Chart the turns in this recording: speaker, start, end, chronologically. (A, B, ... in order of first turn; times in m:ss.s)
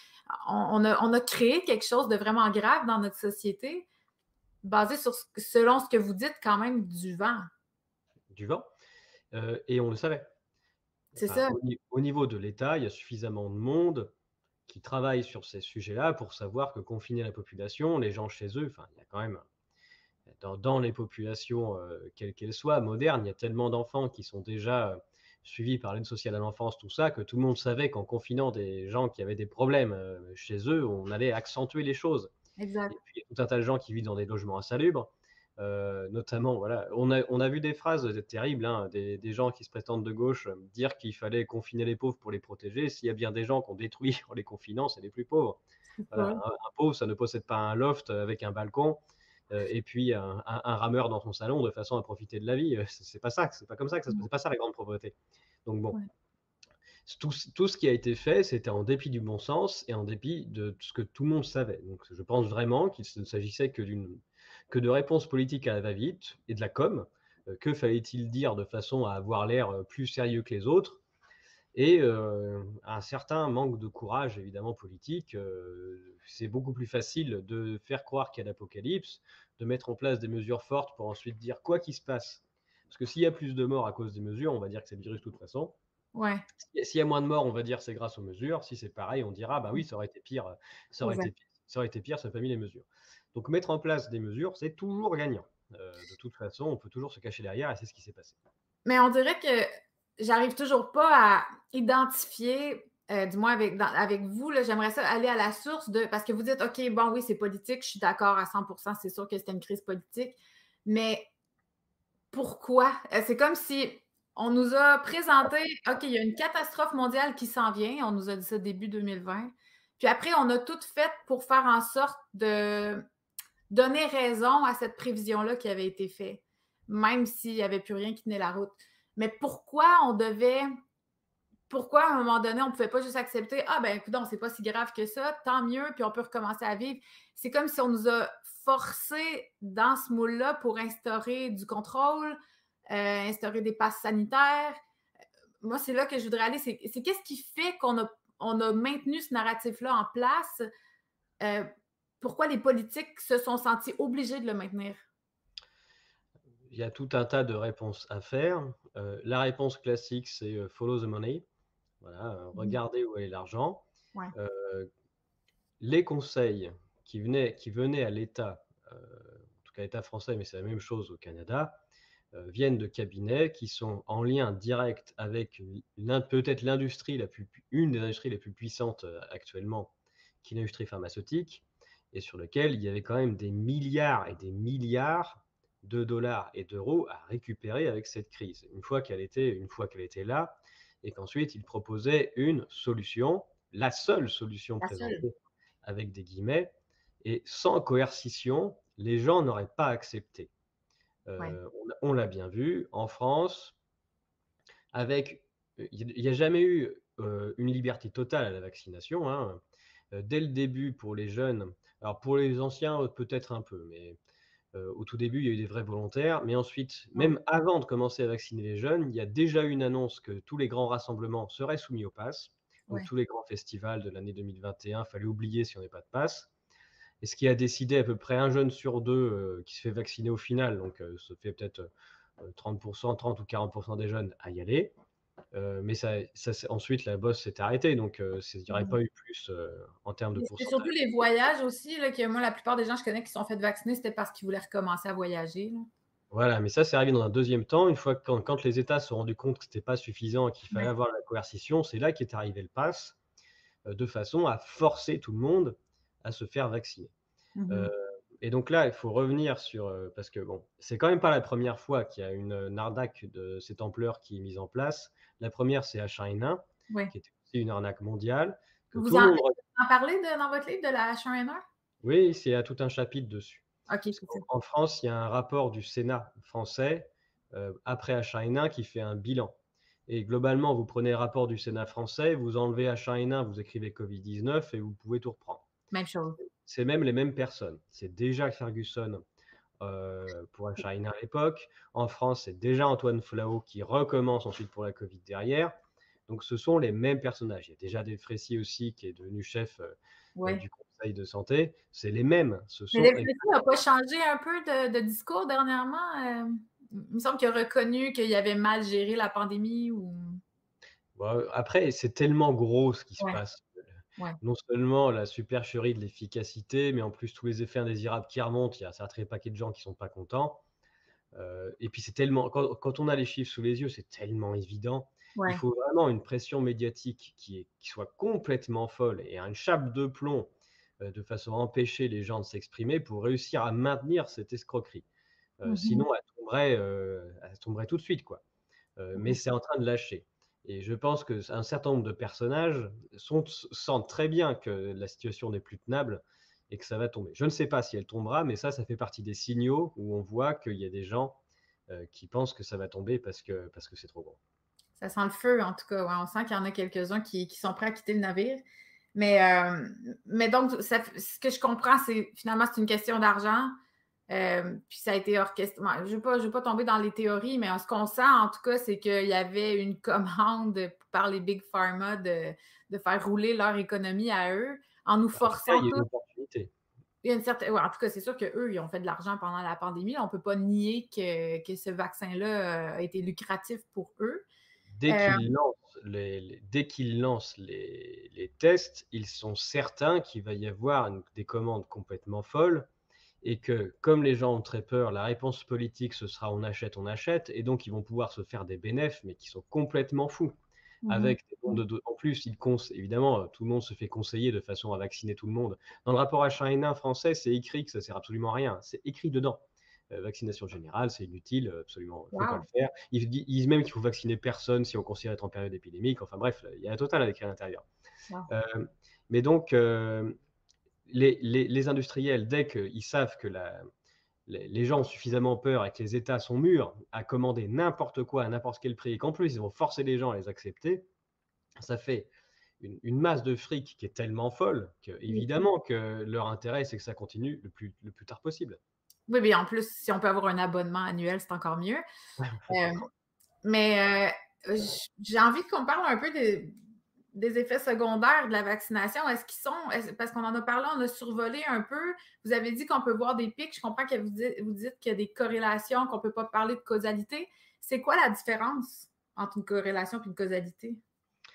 0:00.3-0:03.9 A
0:04.6-0:07.5 A
0:08.3-0:08.7 B
0:09.3-0:10.3 B
0:11.2-0:11.5 A
0:11.2-0:14.1 B
0:14.7-0:19.4 B
0:20.3-0:32.3 B
0:32.6-0:32.9 A
0:32.9-0:56.0 B
0:46.0-0:46.4 A
0:57.0-1:04.2 B
1:04.7-1:11.0 B
1:11.7-1:25.8 B
1:26.1-1:26.4 A
1:26.6-1:38.4 B
1:31.0-1:31.3 A
1:38.8-1:39.7 A
1:40.2-1:51.3 A
1:52.3-2:03.0 A
2:03.7-2:10.6 A
2:11.7-2:22.4 A
2:22.9-2:24.8 A
2:25.6-2:30.6 A
2:31.4-2:31.7 A
2:32.2-2:35.0 A
2:36.7-2:41.4 B
2:42.0-2:44.9 B
2:45.8-2:51.8 B
2:52.3-3:20.5 B
3:14.8-3:15.2 A
3:21.2-3:23.8 B
3:24.9-3:34.2 B
3:34.7-3:46.5 B
3:47.2-3:51.9 B
3:52.4-3:54.9 B
3:55.5-4:00.9 B
4:00.4-4:05.9 A
4:06.3-4:13.2 B
4:13.8-4:17.1 B
4:17.6-4:17.9 A
4:17.7-4:26.6 B
4:27.1-4:29.6 B
4:28.9-4:31.6 A
4:32.0-4:33.6 B
4:33.9-4:34.4 A
4:34.2-4:39.6 B
4:40.1-4:45.6 B
4:45.9-4:46.4 A
4:46.4-4:49.2 B
4:49.8-4:55.7 B
4:56.3-5:03.4 B
5:00.4-5:00.6 A
5:02.9-5:10.4 A
5:11.2-5:13.7 B
5:14.4-5:20.6 B
5:21.3-5:35.0 B
5:25.4-5:25.6 A
5:35.6-5:38.4 B
5:35.6-5:36.0 A
5:39.0-5:54.4 B
5:55.0-5:58.6 A
5:59.1-6:03.7 A
6:04.3-6:16.0 A
6:15.4-6:16.7 B
6:17.2-6:24.4 A
6:25.0-6:32.9 B
6:25.1-6:25.4 A
6:33.4-6:40.5 B
6:41.0-6:41.8 A
6:41.1-6:57.8 B
6:52.3-6:52.6 A
6:58.5-7:00.3 B
7:01.1-7:03.8 B
7:04.5-7:11.1 B
7:11.8-7:18.8 B
7:15.3-7:15.6 A
7:19.3-7:22.0 A
7:22.4-7:22.8 B
7:22.7-7:23.1 A
7:23.6-7:26.7 A
7:27.3-7:41.0 A